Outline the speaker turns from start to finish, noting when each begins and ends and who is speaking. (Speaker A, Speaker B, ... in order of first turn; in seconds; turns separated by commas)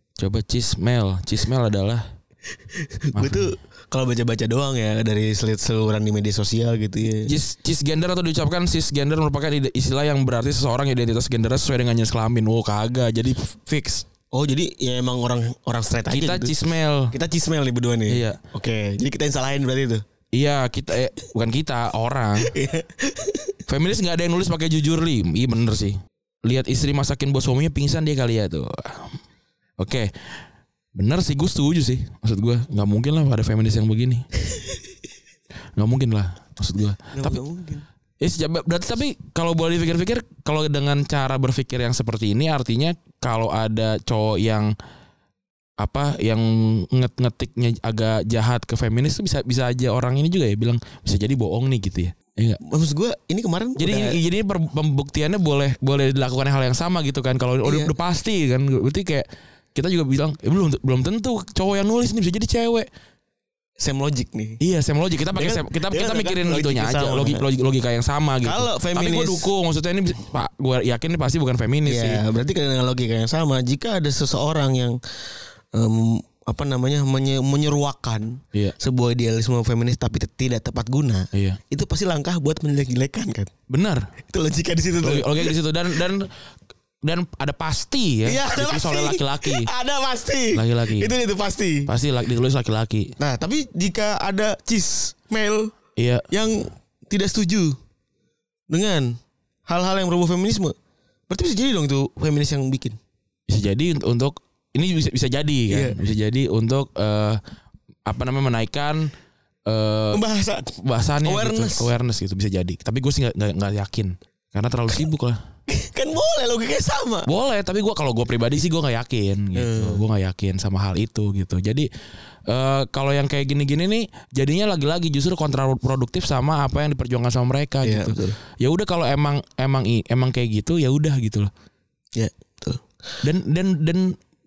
Speaker A: 0.2-2.0, Speaker B: 2.7-7.3, Speaker A: 3.1-3.5, Speaker A: 7.2-14.0, Speaker B: 14.3-16.6, Speaker A: 16.1-17.1, Speaker B: 17.1-20.0, Speaker A: 18.1-18.4, Speaker A: 20.3-22.5, Speaker B: 22.4-23.5, Speaker A: 23.7-29.2, Speaker A: 29.8-30.1, Speaker A: 30.9-34.2, Speaker A: 35.8-37.4, Speaker B: 37.1-37.8, Speaker A: 38.2-44.7, Speaker A: 45.8-52.6, Speaker B: 52.6-54.2, Speaker A: 53.8-62.9, Speaker B: 57.6-57.9, Speaker B: 63.8-64.6, Speaker A: 64.6-72.2, Speaker B: 65.3-67.5, Speaker B: 68.4-69.5, Speaker B: 71.8-75.0, Speaker B: 75.7-83.5, Speaker A: 81.3-81.6, Speaker A: 83.7-84.1, Speaker B: 84.3-85.6, Speaker A: 85.0-86.3, Speaker A: 87.0-89.7, Speaker B: 88.2-91.9, Speaker A: 90.5-91.1, Speaker A: 91.9-93.1, Speaker B: 93.2-95.7, Speaker A: 96.0-96.3, Speaker B: 96.3-97.8, Speaker B: 98.7-100.8, Speaker B: 101.3-103.0, Speaker A: 103.5-107.4, Speaker B: 105.7-106.0, Speaker A: 108.0-109.1, Speaker A: 109.7-110.2, Speaker B: 110.1-111.9, Speaker A: 110.8-115.4, Speaker B: 115.7-117.3, Speaker A: 117.2-121.9, Speaker B: 119.5-120.0, Speaker A: 122.5-131.5, Speaker B: 127.8-128.4, Speaker B: 132.2-132.8, Speaker A: 133.2-134.2